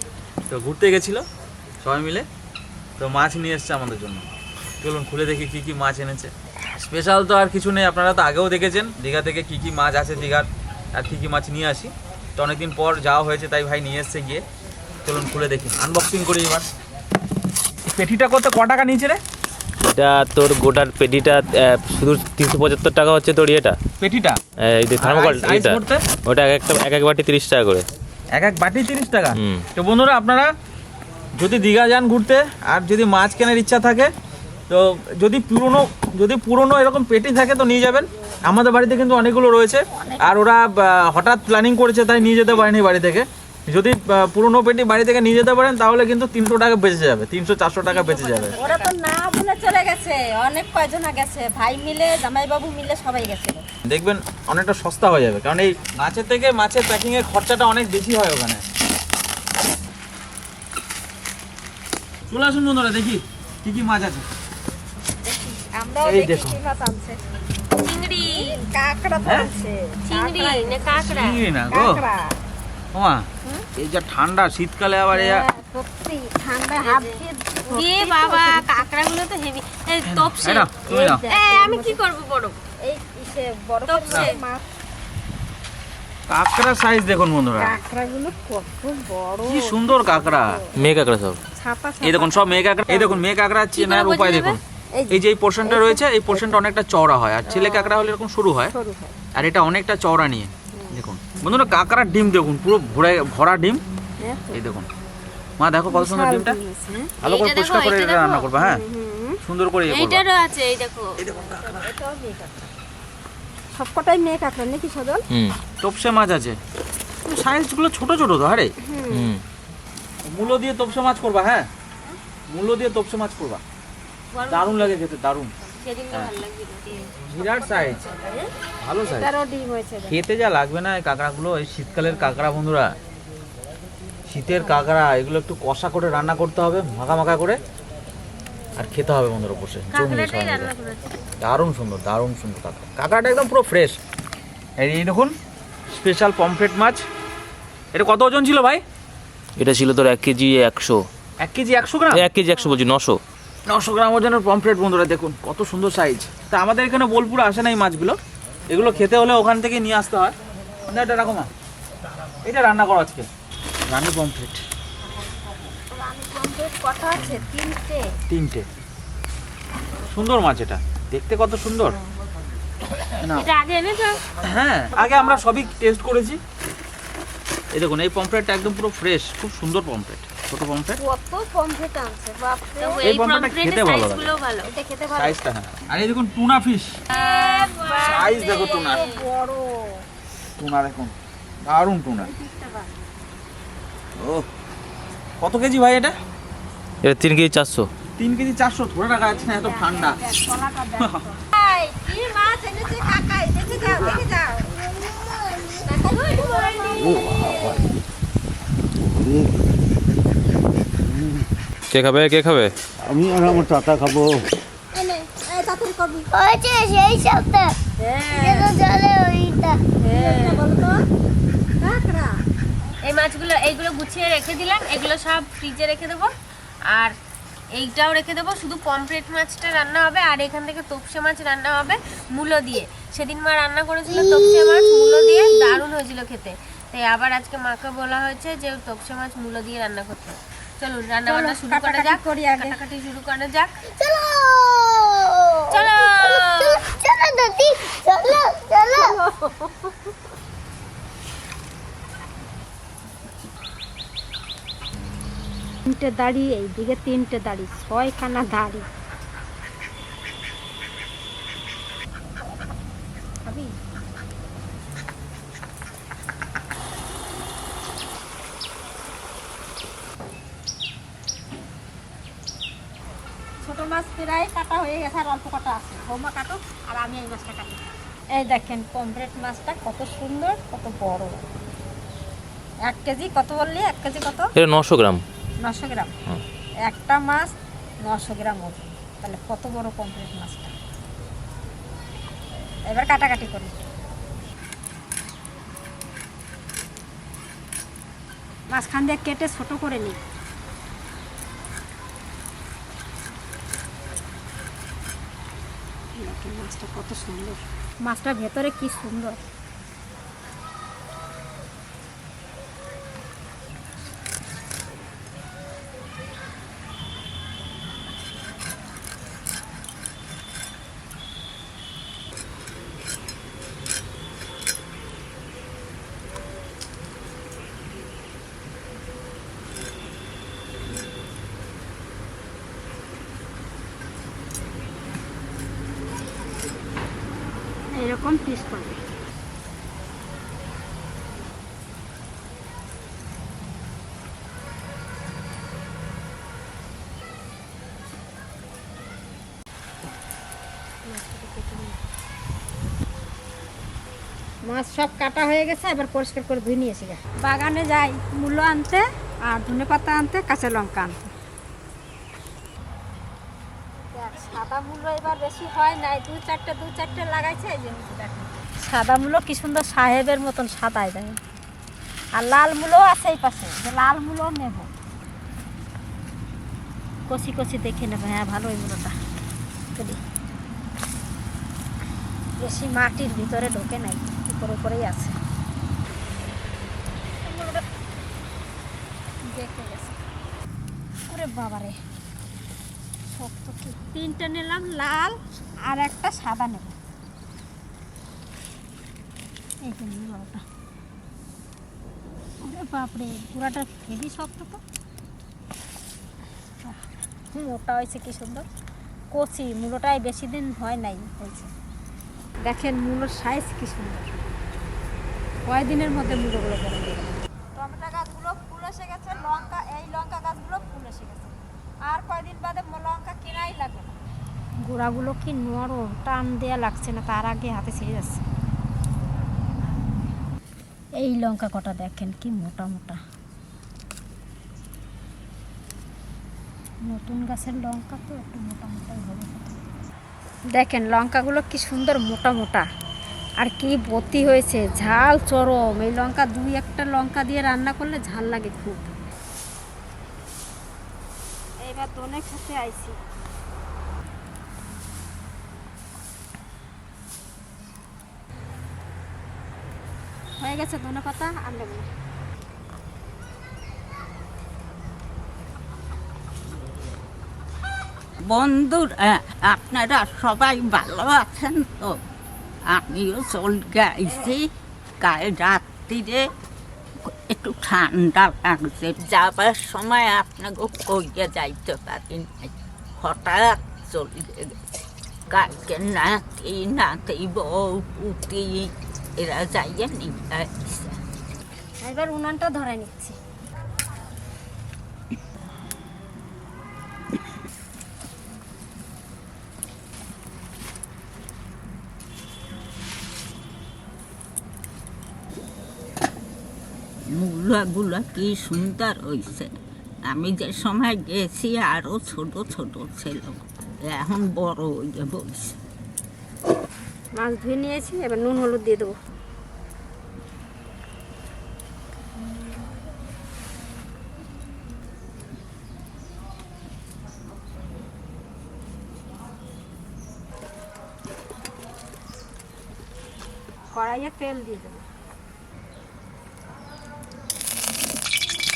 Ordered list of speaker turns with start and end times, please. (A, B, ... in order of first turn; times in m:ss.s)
0:00.5-0:01.2 A
0:01.8-0:02.2 A
0:03.0-0:04.2 A
0:04.8-0:14.4 A
0:15.0-0:16.6 A
0:17.9-0:19.2 A
0:19.9-0:23.8 B
0:24.0-0:24.4 A
0:24.6-0:27.9 B
0:25.0-0:26.0 A
0:28.3-0:30.5 A
0:29.3-0:29.6 B
0:31.4-0:34.1 A
0:34.7-0:48.6 A
0:39.9-0:40.3 C
0:48.0-0:48.9 D
0:48.3-0:53.6 C
0:53.8-0:58.6 A
1:02.3-1:04.2 A
1:05.5-1:07.2 C
1:06.0-1:06.6 A
1:07.8-1:08.6 D
1:08.2-1:11.0 C
1:09.2-1:09.5 A
1:10.0-1:11.4 D
1:11.0-1:12.0 A
1:11.7-1:12.4 C
1:12.9-1:15.4 A
1:15.1-1:18.9 C
1:16.8-1:22.6 D
1:20.0-1:21.2 A
1:21.3-1:22.0 C
1:22.8-1:24.6 C
1:23.9-1:24.4 D
1:26.3-1:27.8 A
1:27.6-1:30.7 C
1:29.4-1:30.6 A
1:30.8-1:31.4 B
1:31.6-1:33.2 C
1:32.0-1:38.7 A
1:33.8-1:34.6 D
1:34.9-1:36.4 C
1:37.5-1:38.0 D
1:38.7-1:39.2 C
1:39.3-1:43.8 A
1:44.2-1:44.6 C
1:44.5-1:44.9 A
1:45.6-1:46.6 A
1:45.9-1:47.1 C
1:47.2-1:48.8 A
1:47.2-1:48.5 D
1:48.6-1:49.4 C
1:49.4-1:50.2 A
1:49.9-1:51.2 D
1:51.2-1:51.8 A
1:51.3-1:52.6 C
1:53.7-1:55.2 C
1:55.3-1:55.6 B
1:55.8-1:56.6 A
1:57.2-1:58.7 A
1:58.8-1:59.3 C
1:59.1-1:59.4 B
2:00.2-2:01.7 A
2:02.5-2:03.6 A
2:04.3-2:05.0 D
2:04.5-2:05.5 A
2:05.8-2:08.5 D
2:07.3-2:08.0 A
2:08.8-2:09.3 A
2:09.0-2:10.2 C
2:10.1-2:12.9 A
2:14.3-2:17.6 A
2:18.8-2:20.7 A
2:19.9-2:21.2 D
2:21.4-2:24.0 A
2:24.8-2:25.4 A
2:25.9-2:27.0 A
2:27.9-2:28.8 A
2:29.6-2:31.0 B
2:31.4-2:32.2 A
2:32.1-2:33.2 B
2:33.6-2:38.2 A
2:38.7-2:40.3 A
2:40.9-2:41.5 A
2:42.4-2:43.3 A
2:43.8-2:44.6 A
2:45.9-2:48.2 C
2:48.3-2:48.7 A
2:50.1-2:52.0 A
2:53.2-2:53.5 A
2:53.4-2:54.2 D
2:54.4-2:56.4 A
2:57.7-3:01.0 A
3:01.0-3:03.1 C
3:02.8-3:04.7 D
3:03.0-3:04.3 A
3:04.6-3:05.4 C
3:05.1-3:07.0 A
3:07.1-3:09.2 D
3:07.1-3:10.0 C
3:08.0-3:09.1 A
3:10.6-3:11.1 A
3:11.7-3:12.3 A
3:12.2-3:12.9 C
3:14.2-3:14.5 A
3:15.4-3:16.2 A
3:17.0-3:17.9 B
3:18.2-3:20.2 A
3:19.3-3:25.0 C
3:21.0-3:21.2 A
3:25.0-3:25.8 E
3:25.7-3:27.8 C
3:26.1-3:27.2 D
3:27.2-3:27.8 F
3:31.9-3:32.7 B
3:33.0-3:34.4 F
3:34.9-3:36.3 C
3:36.3-3:39.8 E
3:38.0-3:38.8 C
3:40.0-3:41.0 C
3:40.0-3:40.6 D
3:41.8-3:42.3 C
3:43.0-3:46.3 D
3:47.7-4:03.8 D
3:54.3-3:55.8 E
4:01.2-4:02.8 C
4:03.9-4:09.2 E
4:05.7-4:06.8 D
4:08.9-4:09.9 C
4:15.8-4:18.8 C
4:23.4-4:23.7 C
4:33.6-4:41.4 C
4:42.8-4:44.5 C
4:44.6-4:45.2 B
4:45.6-4:46.1 C
4:46.8-4:50.7 C
4:52.9-4:53.8 C
4:58.7-5:00.2 C
5:06.2-5:09.4 C
5:37.9-5:39.0 C
5:51.0-5:52.0 C
5:54.6-6:01.3 C
6:04.1-6:11.4 C
6:12.4-6:14.9 C
6:17.3-6:19.1 C
6:22.6-6:25.3 C
6:27.4-6:27.8 C
6:29.5-6:30.2 C
6:31.3-6:32.0 C
6:33.3-6:37.0 C
6:39.8-6:40.6 C
6:42.6-6:44.8 C
6:47.5-6:48.6 C
6:49.3-6:51.7 C
6:52.6-6:54.5 C
6:55.6-7:04.2 C
7:04.8-7:08.4 C
7:11.2-7:13.2 C
7:17.0-7:19.7 C
7:20.7-7:22.8 C
7:23.6-7:29.1 C
7:31.8-7:33.2 C
7:40.6-7:42.1 C
7:48.4-7:52.2 G
7:52.9-7:54.7 G
7:55.2-7:56.5 G
7:57.2-8:04.8 G
8:05.5-8:11.2 G
8:12.0-8:13.4 C
8:27.3-8:29.7 G
8:30.3-8:35.8 G
8:37.4-8:39.2 C
8:53.9-8:55.0 C